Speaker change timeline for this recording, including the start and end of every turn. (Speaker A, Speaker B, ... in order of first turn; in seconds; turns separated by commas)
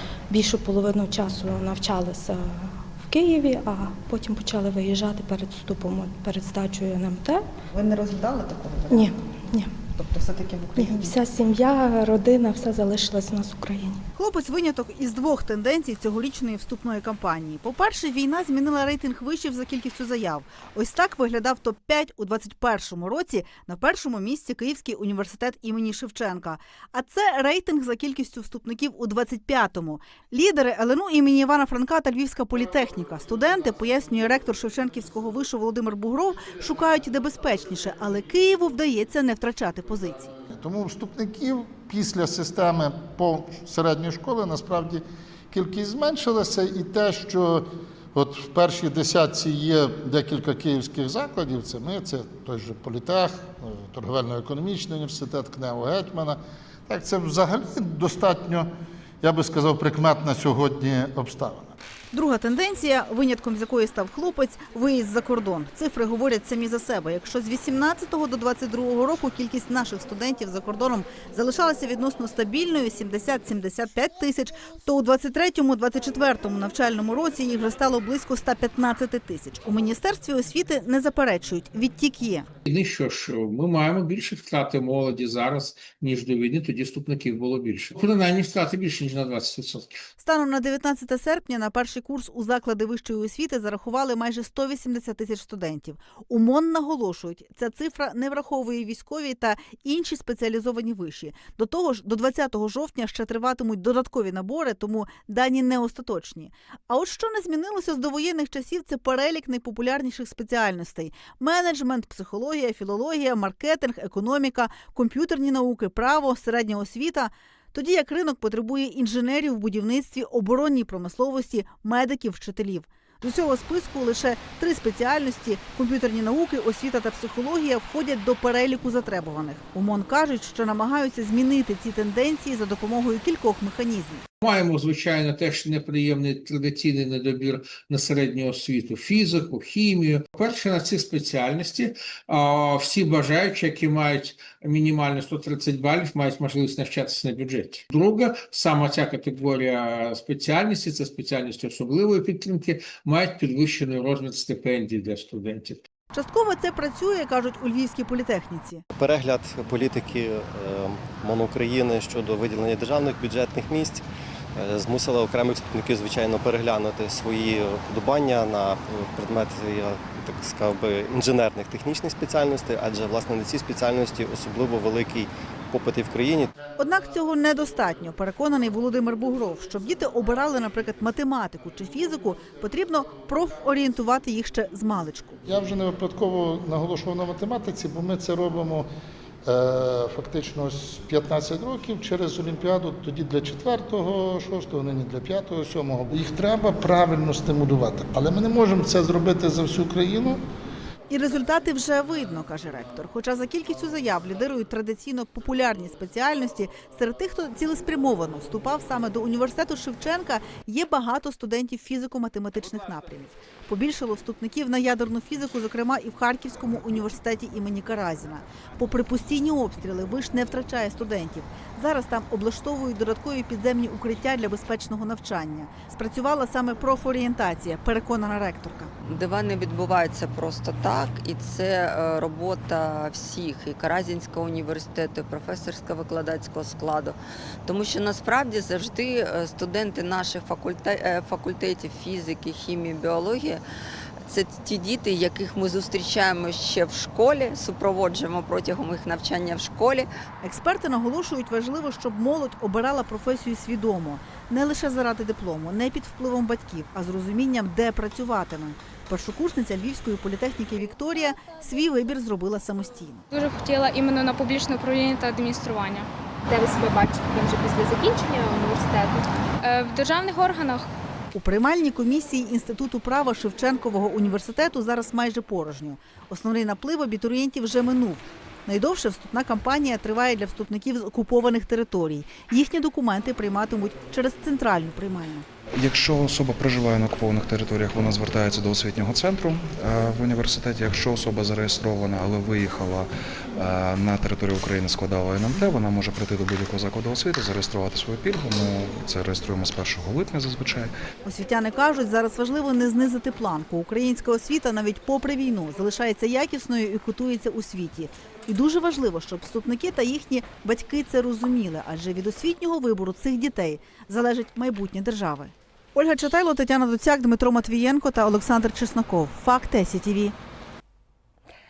Speaker A: 0.3-7.4, Speaker A: 8.9-9.7, Speaker A: 10.7-14.0, Speaker B: 14.2-40.3, Speaker C: 40.5-58.7, Speaker C: 59.2-61.7, Speaker B: 62.1-82.4, Speaker D: 82.6-90.0, Speaker B: 90.3-134.2, Speaker D: 134.4-155.8, Speaker B: 156.1-158.8, Speaker E: 158.9-164.0, Speaker E: 164.6-176.5, Speaker B: 176.8-185.3, Speaker C: 185.4-188.9, Speaker C: 189.4-200.4, Speaker E: 194.1-194.4, Speaker B: 201.1-228.9, Speaker F: 229.0-243.6, Speaker F: 244.2-250.1, Speaker B: 250.4-263.2, Speaker G: 263.3-270.9, Speaker B: 271.3-285.4, Speaker H: 285.7-300.9, Speaker B: 301.2-320.3